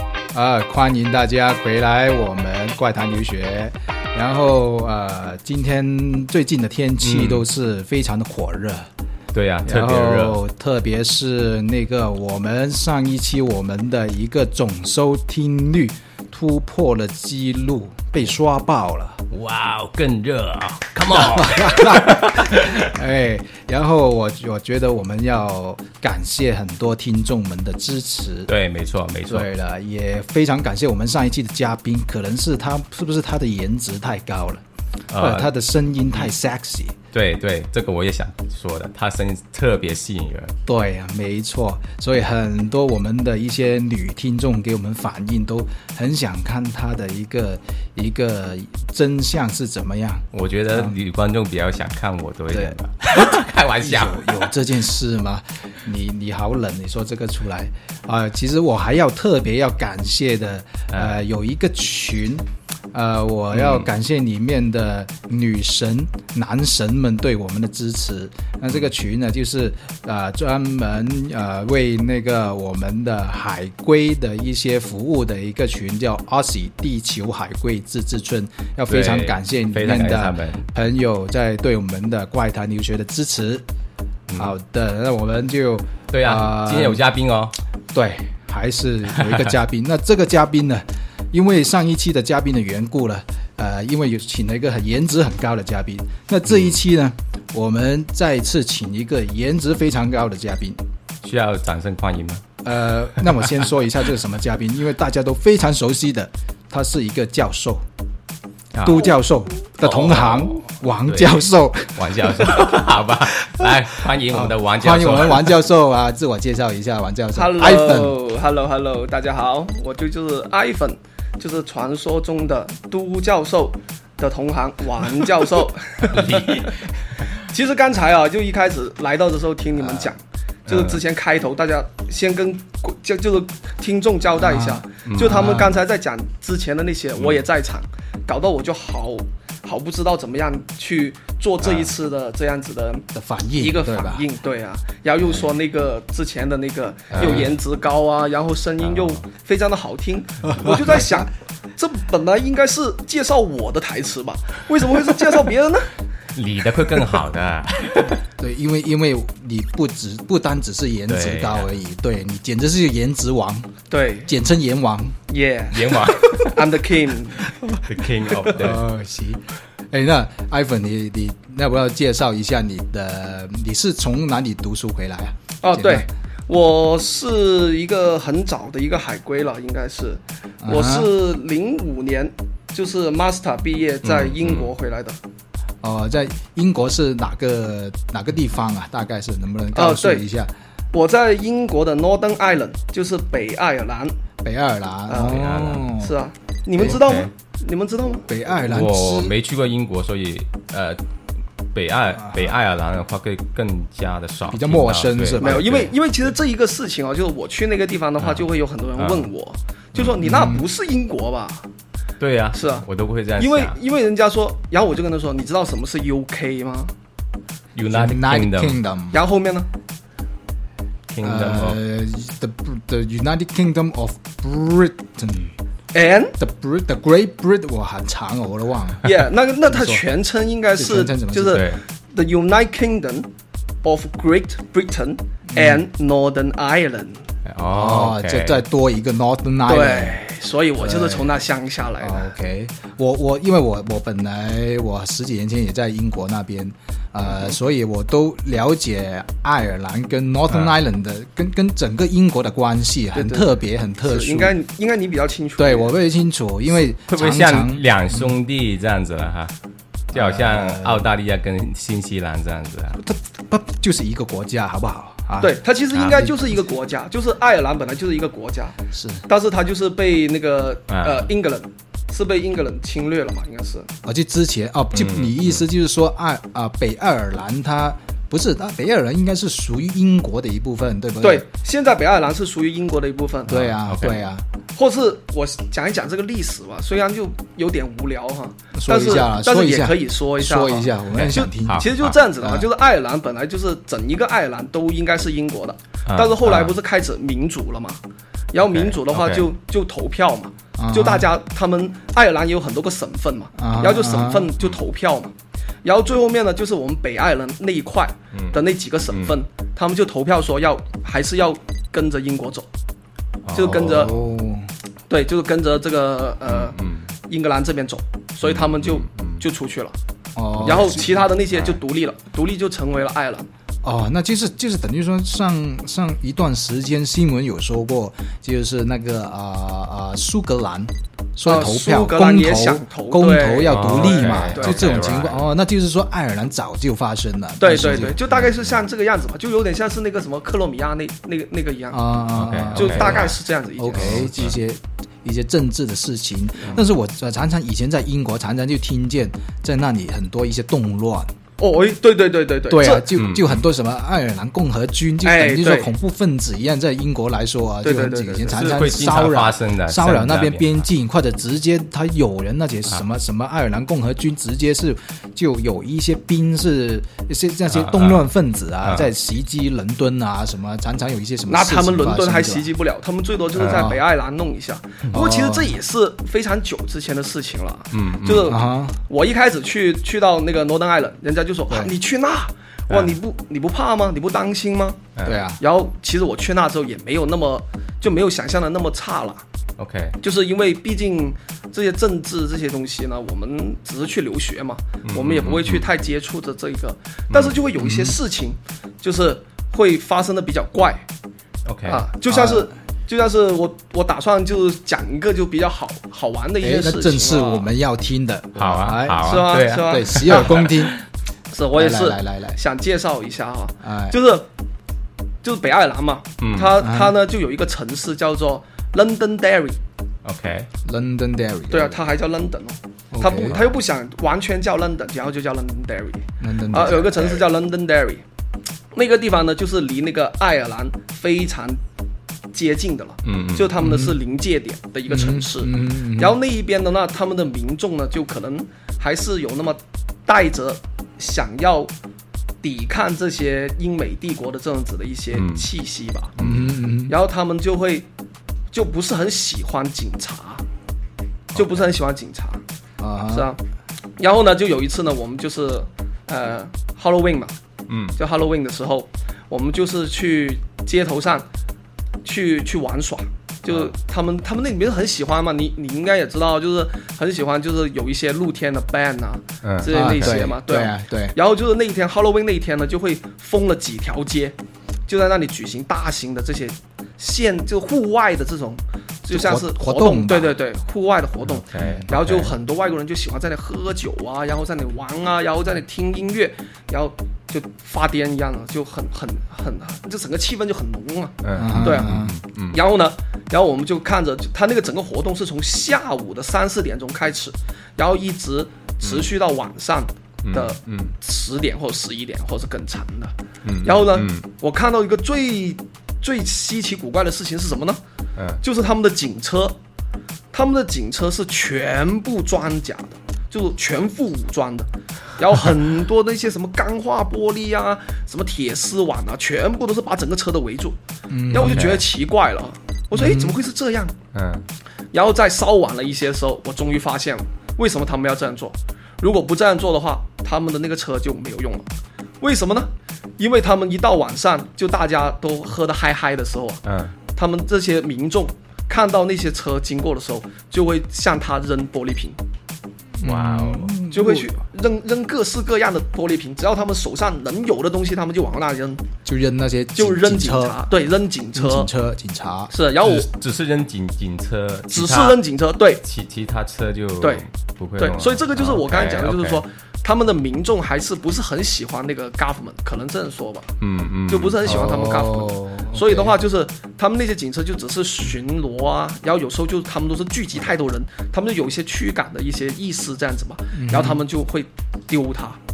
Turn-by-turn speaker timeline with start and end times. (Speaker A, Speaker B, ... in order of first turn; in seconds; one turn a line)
Speaker A: 0.3-8.9
Speaker B: 7.0-7.5
Speaker B: 9.3-10.4
Speaker A: 9.7-19.2
Speaker B: 19.3-22.8
Speaker A: 21.1-28.5
Speaker B: 28.5-29.5
Speaker A: 29.3-37.0
Speaker B: 35.1-35.5
Speaker B: 37.1-40.5
Speaker A: 40.7-51.0
Speaker B: 50.3-54.5
Speaker A: 52.5-83.7
Speaker B: 60.9-61.2
Speaker B: 63.5-63.9
Speaker B: 78.9-80.6
Speaker B: 84.3-84.5
Speaker A: 84.4-87.0
Speaker B: 86.1-87.6
Speaker A: 87.9-100.8
Speaker B: 101.2-102.4
Speaker A: 102.6-107.8
Speaker B: 108.8-109.1
Speaker A: 108.8-118.2
Speaker B: 109.8-115.6
Speaker C: 117.4-126.7
Speaker B: 126.0-126.8
Speaker C: 127.4-155.9
Speaker B: 130.7-131.0
Speaker A: 134.4-135.8
Speaker B: 135.1-135.6
Speaker B: 137.2-137.5
Speaker B: 141.6-141.9
Speaker A: 143.1-144.2
Speaker B: 147.1-147.6
Speaker B: 148.8-149.2
Speaker A: 150.5-151.0
Speaker B: 156.3-158.2
Speaker A: 158.4-163.7
Speaker B: 161.1-161.7
Speaker C: 163.9-164.3
Speaker A: 164.2-165.2
Speaker C: 165.3-167.5
Speaker B: 165.7-166.6
Speaker B: 167.8-168.8
Speaker A: 168.5-176.1
Speaker C: 175.6-185.2
Speaker A: 180.6-181.1
Speaker B: 184.0-184.7
Speaker A: 185.8-190.5
Speaker C: 189.7-190.3
Speaker C: 190.9-194.1
Speaker A: 194.4-196.1
Speaker C: 195.1-195.4
Speaker B: 195.2-195.9
Speaker C: 196.0-198.3
Speaker B: 196.8-197.3
Speaker A: 198.2-199.3
Speaker B: 198.6-201.0
Speaker B: 201.7-205.9
Speaker A: 204.5-205.7
Speaker C: 205.4-211.7
Speaker B: 208.2-208.4
Speaker B: 209.0-209.3
Speaker A: 210.2-210.7
Speaker B: 212.2-213.8
Speaker C: 212.5-212.8
Speaker C: 213.4-216.9
Speaker B: 217.8-218.8
Speaker A: 217.9-219.2
Speaker C: 219.1-219.7
Speaker B: 221.1-221.8
Speaker A: 221.2-225.6
Speaker C: 225.9-226.4
Speaker A: 226.4-230.0
Speaker C: 229.0-233.3
Speaker A: 230.8-231.6
Speaker B: 231.5-231.8
Speaker C: 233.8-237.2
Speaker A: 235.5-235.9
Speaker B: 237.5-238.6
Speaker A: 237.7-240.2
Speaker C: 239.7-242.3
Speaker A: 240.8-241.3
Speaker A: 242.0-254.6
Speaker C: 253.2-253.5
Speaker C: 254.0-255.9
Speaker A: 255.6-258.3
Speaker B: 257.1-259.5
Speaker A: 260.1-261.1
Speaker B: 260.1-263.0
Speaker A: 263.0-265.6
Speaker C: 265.4-273.9
Speaker B: 265.9-266.2
Speaker A: 268.9-269.2
Speaker B: 270.9-271.3
Speaker A: 274.0-281.4
Speaker B: 274.9-275.6
Speaker C: 281.2-284.1
Speaker A: 283.5-284.4
Speaker B: 283.9-284.2
Speaker C: 284.8-298.0
Speaker A: 288.7-292.7
Speaker B: 291.1-292.1
Speaker B: 296.1-296.8
Speaker C: 298.5-312.7
Speaker B: 298.6-299.5
Speaker A: 300.8-301.3
Speaker A: 303.6-304.5
Speaker B: 308.3-309.4
Speaker B: 313.5-314.2
Speaker C: 313.5-314.1
Speaker A: 313.6-314.7
Speaker C: 315.1-320.0
Speaker B: 316.5-317.1
Speaker B: 318.4-319.4
Speaker A: 320.4-321.3
Speaker B: 320.6-321.8
Speaker C: 320.6-323.5
Speaker A: 323.8-338.3
Speaker C: 331.4-335.0
Speaker B: 333.7-335.5
Speaker C: 337.6-342.1
Speaker B: 338.3-338.7
Speaker A: 341.9-351.3
Speaker B: 342.3-343.4
Speaker C: 342.7-344.5
Speaker B: 343.9-344.6
Speaker C: 351.6-353.1
Speaker A: 352.7-372.7
Speaker B: 353.1-353.6
Speaker C: 355.2-355.9
Speaker C: 357.8-359.0
Speaker B: 358.5-360.8
Speaker B: 367.7-368.2
Speaker B: 368.8-369.1
Speaker C: 371.5-385.0
Speaker B: 373.6-373.9
Speaker A: 373.6-374.0
Speaker A: 375.1-375.8
Speaker B: 377.9-378.6
Speaker A: 378.4-379.0
Speaker B: 382.9-383.2
Speaker B: 385.2-385.4
Speaker A: 385.2-385.6
Speaker C: 385.6-389.4
Speaker B: 389.8-390.2
Speaker C: 390.2-401.1
Speaker B: 395.1-395.9
Speaker B: 397.3-397.6
Speaker A: 397.8-398.2
Speaker B: 401.6-402.1
Speaker C: 401.9-407.7
Speaker A: 402.3-402.7
Speaker A: 406.6-411.0
Speaker B: 408.6-410.9
Speaker C: 409.2-410.6
Speaker C: 411.5-414.5
Speaker A: 411.8-412.6
Speaker A: 413.8-414.2
Speaker C: 415.4-419.8
Speaker B: 416.4-416.8
Speaker A: 416.8-417.1
Speaker B: 420.2-420.7
Speaker A: 420.9-422.0
Speaker C: 421.7-428.2
Speaker A: 423.1-423.6
Speaker A: 426.4-427.2
Speaker B: 426.9-427.4
Speaker C: 428.9-431.8
Speaker C: 432.5-441.9
Speaker B: 433.2-433.7
Speaker A: 433.8-434.2
Speaker A: 435.1-436.4
Speaker C: 442.6-446.4
Speaker B: 445.3-445.6
Speaker B: 446.4-446.7
Speaker A: 446.4-447.1
Speaker C: 447.1-448.1
Speaker C: 448.7-450.6
Speaker C: 451.5-452.6
Speaker B: 451.6-451.8
Speaker A: 453.0-453.5
Speaker C: 453.3-453.6
Speaker C: 454.2-457.6
Speaker B: 457.9-458.2
Speaker C: 458.2-461.5
Speaker C: 462.2-474.6
Speaker B: 469.6-470.4
Speaker A: 469.9-471.4
Speaker C: 475.1-492.2
Speaker A: 479.3-480.6
Speaker B: 481.5-482.5
Speaker A: 481.8-482.1
Speaker B: 491.4-492.8
Speaker A: 491.6-492.3
Speaker C: 492.7-508.0
Speaker B: 500.4-501.1
Speaker B: 503.6-504.5
Speaker B: 508.4-508.6
Speaker C: 508.6-509.8
Speaker C: 510.5-521.0
Speaker A: 521.3-522.0
Speaker C: 521.5-524.1
Speaker B: 521.6-522.0
Speaker A: 523.1-523.6
Speaker B: 524.3-524.7
Speaker C: 525.1-531.9
Speaker C: 532.4-536.8
Speaker B: 536.9-537.1
Speaker C: 537.3-542.4
Speaker A: 543.2-544.5
Speaker B: 543.2-544.0
Speaker C: 544.1-549.0
Speaker A: 549.2-550.8
Speaker C: 550.0-551.9
Speaker A: 551.5-552.7
Speaker C: 552.7-553.3
Speaker B: 553.0-555.4
Speaker C: 554.9-556.0
Speaker B: 556.0-559.6
Speaker C: 558.0-563.7
Speaker B: 563.8-564.8
Speaker C: 564.3-575.6
Speaker A: 564.6-566.4
Speaker A: 573.7-574.2